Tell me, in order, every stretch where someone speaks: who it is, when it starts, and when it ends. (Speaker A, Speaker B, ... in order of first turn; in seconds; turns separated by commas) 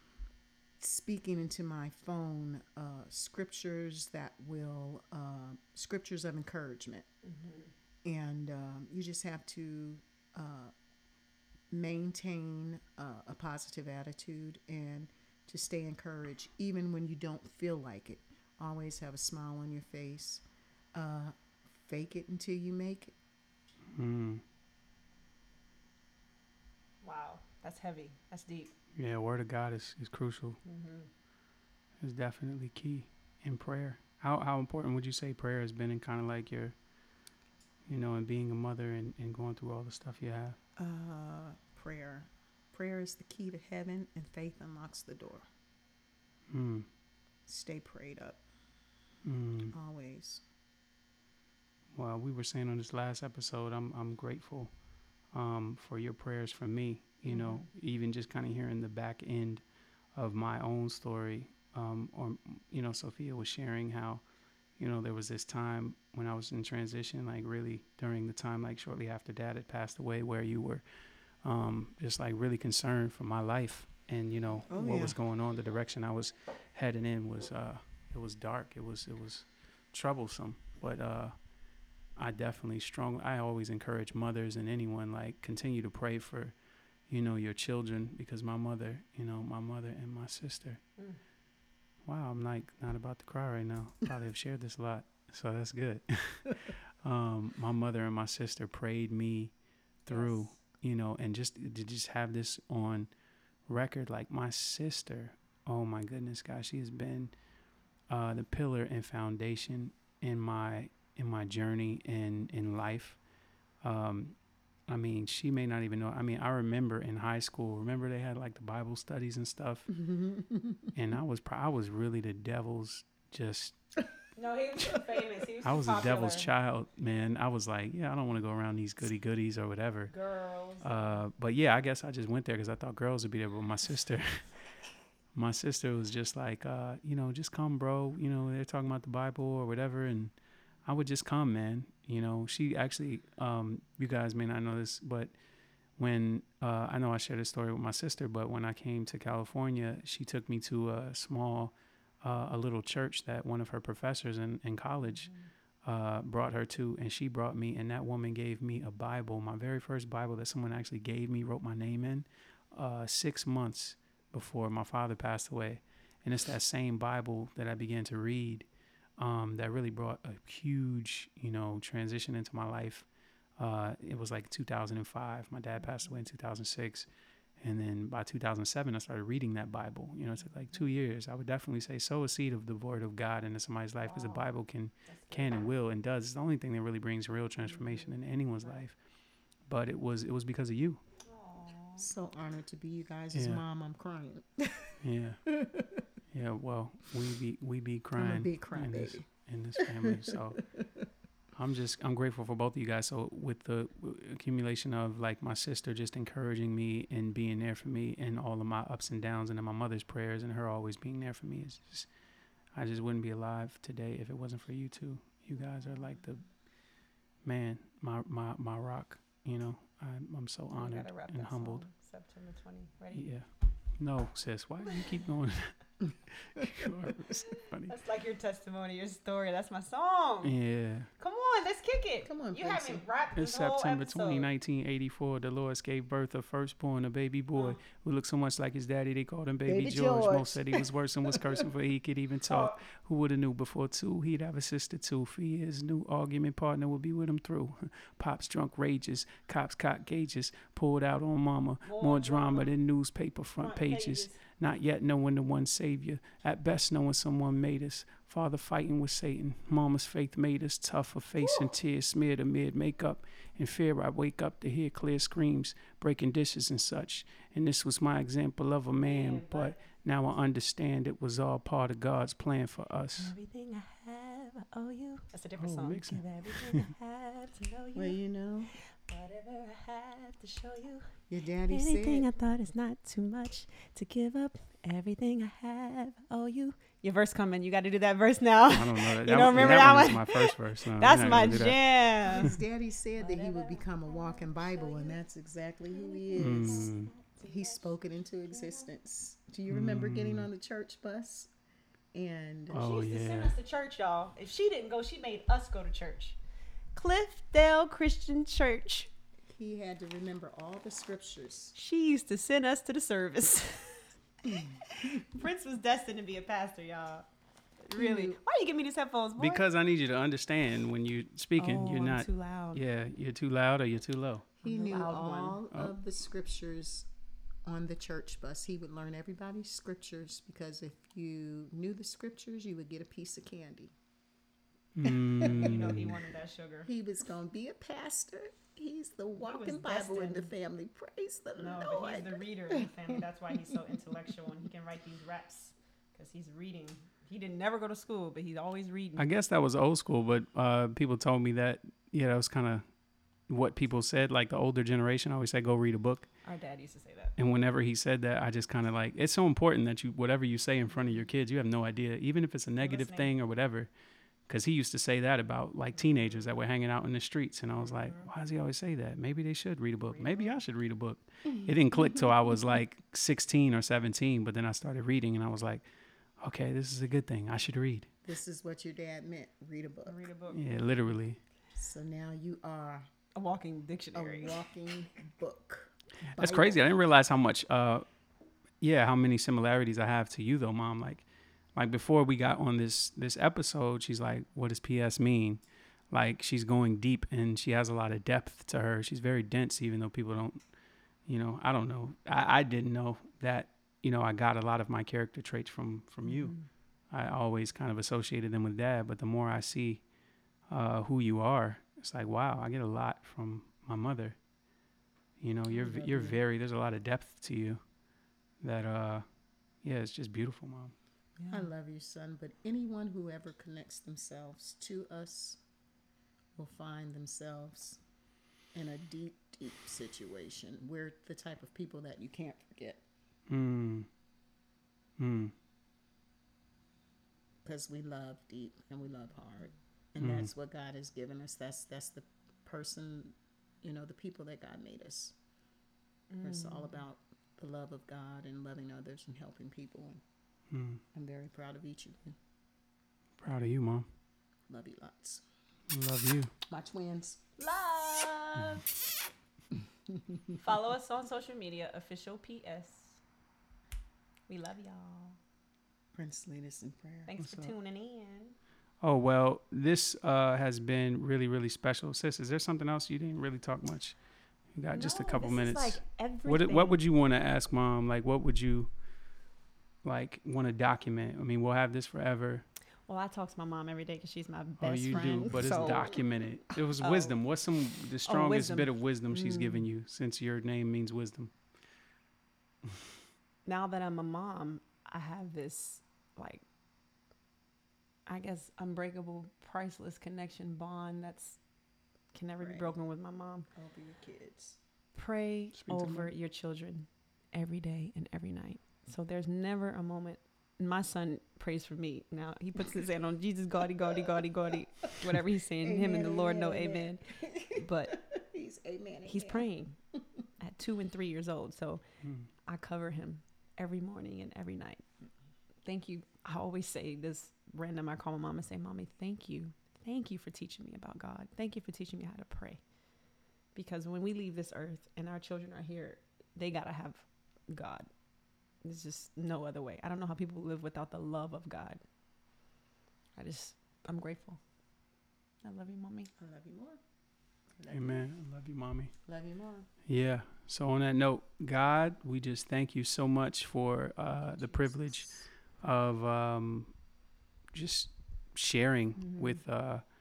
Speaker A: 0.8-7.0, Speaker B: 7.2-7.7, Speaker A: 8.0-10.7, Speaker A: 11.7-20.4, Speaker A: 20.9-23.1, Speaker C: 23.9-24.4, Speaker B: 27.0-28.7, Speaker C: 28.9-30.6, Speaker B: 30.6-31.1, Speaker C: 32.0-36.7, Speaker C: 37.9-40.6, Speaker A: 40.8-45.5, Speaker C: 46.5-46.9, Speaker A: 47.5-48.4, Speaker C: 49.2-49.7, Speaker A: 49.7-50.4, Speaker C: 51.9-54.7, Speaker C: 55.3-59.6, Speaker B: 57.3-57.7, Speaker C: 60.1-64.2, Speaker C: 64.8-70.8, Speaker C: 71.4-81.3, Speaker A: 74.7-75.2, Speaker C: 82.2-86.5, Speaker C: 87.1-90.8, Speaker C: 92.0-99.5, Speaker C: 100.0-103.1, Speaker B: 100.1-100.5, Speaker C: 103.7-107.3, Speaker C: 108.1-113.2, Speaker C: 113.8-114.3, Speaker C: 114.9-119.9, Speaker A: 119.9-120.9, Speaker C: 120.9-123.8, Speaker B: 124.3-126.5, Speaker C: 125.6-130.1, Speaker B: 130.1-130.9, Speaker C: 130.8-134.5, Speaker C: 135.3-140.3, Speaker C: 140.8-145.3, Speaker C: 146.0-155.3, Speaker B: 155.0-155.5, Speaker C: 155.8-168.7, Speaker C: 169.2-173.1, Speaker C: 173.6-177.1, Speaker B: 175.8-176.2, Speaker C: 177.6-188.9, Speaker B: 184.0-184.5, Speaker B: 185.1-185.6, Speaker B: 187.7-188.1, Speaker C: 189.7-191.0, Speaker B: 191.2-192.1, Speaker A: 192.0-196.1, Speaker C: 193.3-193.6, Speaker C: 195.0-195.4, Speaker C: 196.3-200.6, Speaker A: 198.2-201.1, Speaker C: 201.5-212.1, Speaker C: 212.7-216.4, Speaker C: 217.4-221.8, Speaker B: 220.7-223.3, Speaker C: 223.1-223.5, Speaker C: 224.0-225.8, Speaker C: 226.3-227.9, Speaker A: 226.6-227.1, Speaker B: 227.9-230.5, Speaker C: 230.4-231.1, Speaker B: 231.2-234.5, Speaker A: 232.2-233.1, Speaker C: 233.3-273.3, Speaker B: 237.5-237.8, Speaker A: 239.7-241.7, Speaker B: 242.5-242.8, Speaker B: 251.8-252.7, Speaker B: 253.6-254.4, Speaker B: 261.4-261.7, Speaker B: 269.0-269.8, Speaker B: 273.2-278.2, Speaker C: 275.6-276.9, Speaker A: 277.9-278.7, Speaker B: 279.0-281.1, Speaker A: 281.3-282.3, Speaker B: 281.7-292.6, Speaker C: 288.7-291.8, Speaker A: 292.3-301.5, Speaker B: 293.2-295.2, Speaker B: 295.9-297.9, Speaker C: 296.4-297.1, Speaker B: 298.5-298.9, Speaker C: 299.7-300.5, Speaker A: 302.1-302.8, Speaker B: 302.7-306.4, Speaker C: 302.7-303.5, Speaker B: 306.9-309.1, Speaker A: 309.5-311.7, Speaker B: 311.7-314.1, Speaker A: 314.4-315.3, Speaker B: 314.9-317.2, Speaker B: 317.8-319.6, Speaker A: 317.9-318.4, Speaker C: 319.4-324.5, Speaker B: 321.6-322.8, Speaker A: 324.6-327.1, Speaker B: 324.6-325.6, Speaker A: 327.6-333.9, Speaker C: 334.9-336.1, Speaker A: 335.0-336.0, Speaker B: 335.4-336.9, Speaker A: 336.9-344.5, Speaker B: 339.4-340.5, Speaker B: 341.6-349.3, Speaker C: 349.1-352.8, Speaker C: 353.5-356.3, Speaker B: 356.4-357.4, Speaker C: 357.4-363.9, Speaker B: 362.8-363.3, Speaker C: 364.5-375.8, Speaker B: 366.0-366.3, Speaker B: 367.8-368.3, Speaker B: 370.1-370.6, Speaker C: 376.4-378.1, Speaker A: 378.2-380.3, Speaker B: 380.1-380.6, Speaker C: 380.5-381.4, Speaker A: 381.7-383.0, Speaker B: 383.4-384.6, Speaker A: 384.1-386.8, Speaker C: 386.2-388.0, Speaker C: 388.8-391.2, Speaker C: 391.7-400.6, Speaker C: 401.3-406.5, Speaker B: 406.2-406.7, Speaker C: 407.1-410.0, Speaker C: 410.7-414.4, Speaker C: 415.4-417.8, Speaker B: 415.7-416.0, Speaker A: 415.8-416.4, Speaker C: 418.6-419.2, Speaker C: 419.8-420.9, Speaker B: 421.4-421.7, Speaker A: 421.5-425.6, Speaker A: 426.6-428.0, Speaker A: 428.7-433.0, Speaker C: 433.5-434.1, Speaker C: 435.2-435.5, Speaker A: 437.6-445.3, Speaker C: 440.2-440.5, Speaker B: 446.3-447.0, Speaker A: 446.4-450.2, Speaker C: 450.7-451.0, Speaker A: 451.1-452.4, Speaker C: 453.4-454.1, Speaker A: 454.7-455.4, Speaker C: 455.9-456.5, Speaker A: 456.7-457.6, Speaker B: 457.6-458.9, Speaker A: 460.1-460.4, Speaker B: 460.6-463.2, Speaker B: 464.5-465.4, Speaker A: 466.1-467.3, Speaker B: 467.3-468.6, Speaker C: 467.4-467.7, Speaker C: 469.0-474.1, Speaker C: 474.7-478.9, Speaker B: 474.9-477.0, Speaker C: 480.0-482.6, Speaker B: 483.1-486.1, Speaker C: 484.8-491.5, Speaker A: 485.1-486.2, Speaker B: 487.0-487.4, Speaker B: 488.2-489.9, Speaker B: 493.6-496.6, Speaker B: 498.3-501.6, Speaker B: 502.3-503.7, Speaker A: 502.6-502.9, Speaker A: 503.7-504.8, Speaker B: 505.1-518.2, Speaker C: 505.7-506.3, Speaker A: 514.1-514.7, Speaker A: 515.8-519.7, Speaker B: 519.3-520.0, Speaker B: 520.6-522.0, Speaker C: 522.2-522.5, Speaker B: 522.6-525.0, Speaker B: 525.8-532.8, Speaker B: 533.7-538.1, Speaker B: 538.8-542.0, Speaker B: 543.4-544.6, Speaker B: 545.6-546.3, Speaker A: 546.4-547.0, Speaker A: 547.8-548.2, Speaker C: 547.9-549.1, Speaker A: 549.2-549.9, Speaker C: 550.0-555.2, Speaker A: 554.3-555.5, Speaker C: 555.8-556.9, Speaker C: 557.7-560.0, Speaker B: 559.2-559.6